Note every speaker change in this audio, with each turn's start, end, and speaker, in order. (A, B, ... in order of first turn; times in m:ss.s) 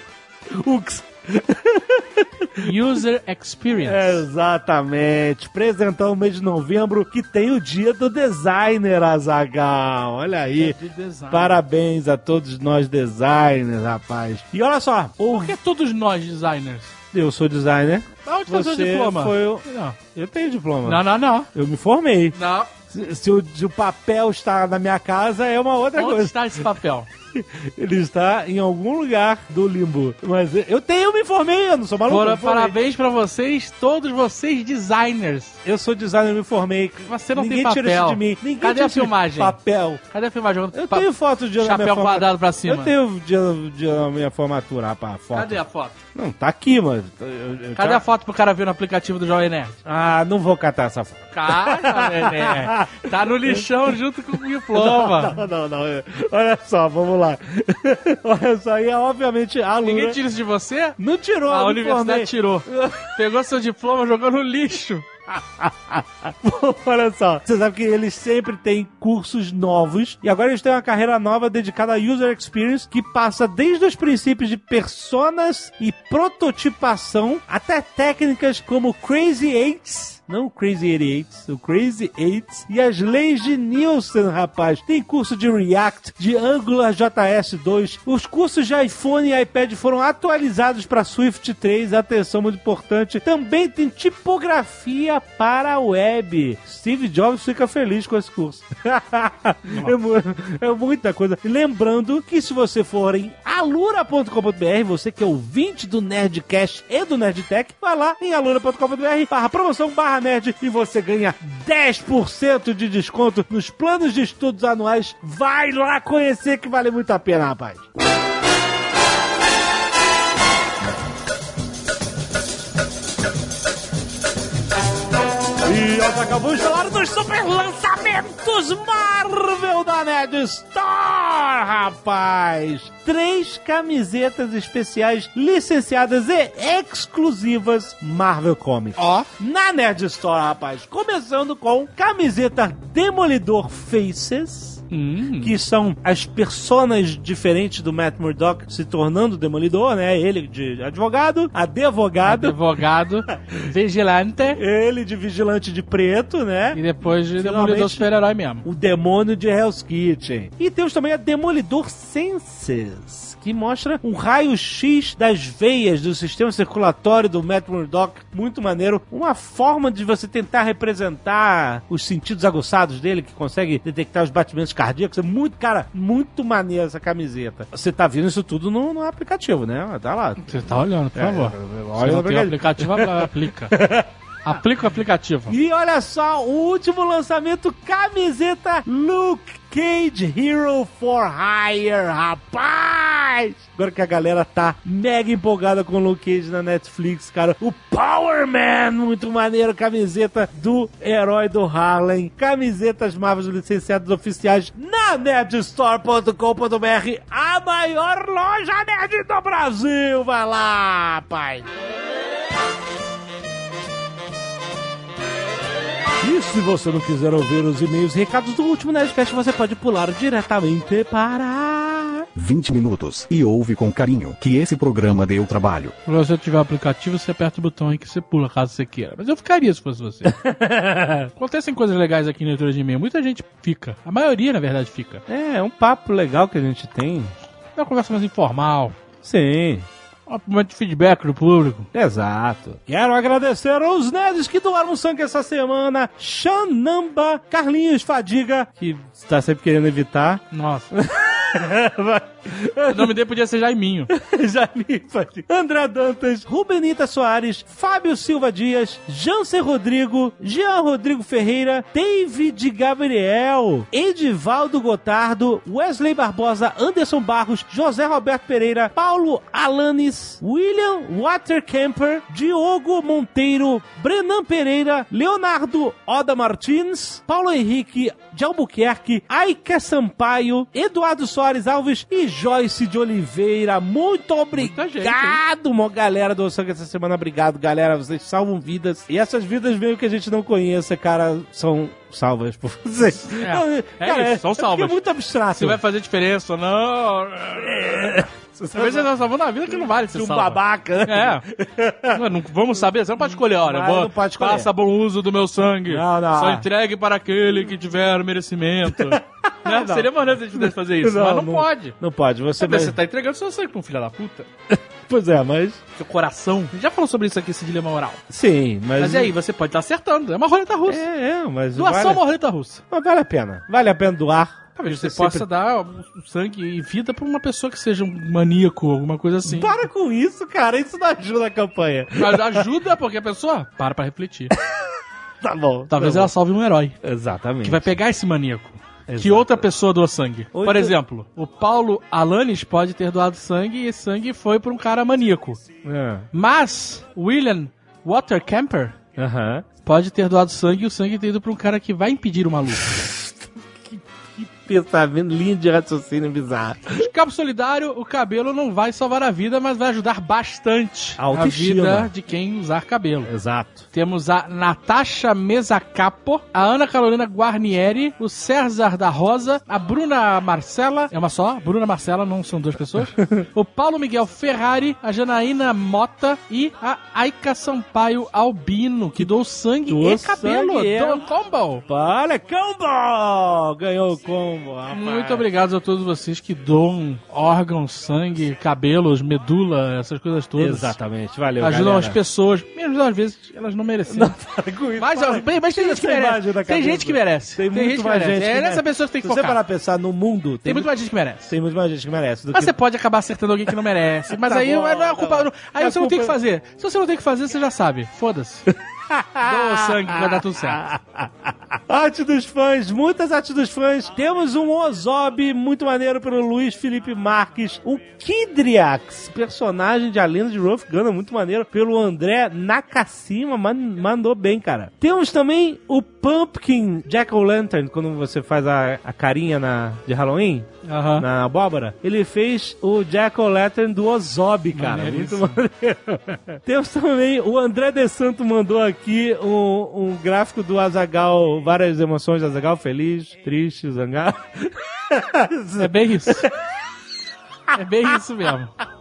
0:00.5-0:02.7 A
0:02.6-0:04.2 B
0:03.8-0:10.8 A
0:10.6-0:11.6 B
0:11.3-0:15.6 A
0:15.4-0:16.9 B
0:17.1-0:22.4 A
0:18.2-0:20.0 B
0:20.8-0:21.5 B
0:22.3-0:22.7 B
0:22.9-0:26.7 A
0:26.0-0:27.1 B
0:27.3-0:32.8 A
0:32.1-0:35.6 B
0:35.6-0:40.0 A
0:37.1-0:39.6 B
0:40.1-0:42.9 B
0:40.7-0:45.6 A
0:45.3-0:46.0 B
0:46.2-0:48.0 A
0:47.8-0:49.8 B
0:49.8-0:53.7 A
0:51.3-0:55.4 B
0:54.7-1:00.2 A
0:59.8-1:05.0 B
1:01.0-1:03.1 A
1:05.3-1:57.9 A
1:39.7-1:40.0 B
2:05.6-2:24.8 A
2:19.0-2:19.3 B
2:24.9-2:25.5 B
2:25.4-2:32.6 A
2:32.2-2:34.6 B
2:33.3-2:33.6 A
2:34.6-2:36.8 A
2:36.7-2:38.7 B
2:37.4-2:38.1 A
2:38.6-3:04.6 A
3:00.4-3:03.8 B
3:04.4-3:05.6 B
3:05.5-3:31.7 A
3:36.2-3:42.3 A
3:42.4-3:46.0 C
3:46.0-3:50.3 B
3:50.2-3:51.3 A
3:51.4-3:55.2 B
3:55.3-3:57.3 A
3:57.8-3:59.0 B
3:59.2-3:59.9 A
4:00.3-4:01.9 B
4:01.9-4:13.1 A
4:10.5-4:10.9 B
4:12.9-4:14.1 B
4:14.1-4:55.8 A
4:44.6-4:45.4 B
4:53.2-4:55.0 B
4:55.6-5:01.5 B
4:57.6-4:59.1 A
4:59.7-5:02.2 A
5:02.1-5:12.0 B
5:03.2-5:04.7 A
5:05.9-5:06.7 A
5:08.9-5:13.0 A
5:12.6-5:14.5 B
5:14.7-5:15.8 A
5:16.0-5:18.2 B
5:18.3-5:19.3 A
5:19.0-5:21.0 B
5:20.9-5:22.2 A
5:21.7-5:22.8 B
5:22.9-5:25.5 A
5:24.8-5:29.8 B
5:29.4-5:32.7 A
5:32.2-5:34.5 B
5:35.4-5:36.3 A
5:35.9-5:37.0 B
5:37.0-5:37.9 A
5:37.6-5:45.6 B
5:39.1-5:39.7 A
5:40.5-5:41.0 A
5:45.8-5:46.3 A
5:46.3-5:49.0 B
5:49.2-5:49.7 A
5:49.8-5:52.9 B
5:52.9-5:57.0 A
5:57.0-6:03.3 B
6:01.2-6:02.1 A
6:03.3-6:03.9 A
6:03.9-6:21.8 B
6:13.2-6:13.5 A
6:19.9-6:21.2 A
6:21.9-6:25.4 A
6:24.9-6:31.0 B
6:30.6-6:32.2 A
6:31.6-6:34.3 B
6:34.1-6:40.9 A
6:35.0-6:39.6 B
6:40.6-6:41.5 B
6:41.5-6:42.8 A
6:42.5-6:48.7 B
6:44.3-6:46.4 A
6:48.7-7:26.6 A
6:49.4-6:50.9 B
7:10.8-7:11.3 B
7:14.7-7:15.6 B
7:25.8-7:26.5 B
7:27.7-7:28.2 A
7:27.7-7:28.8 B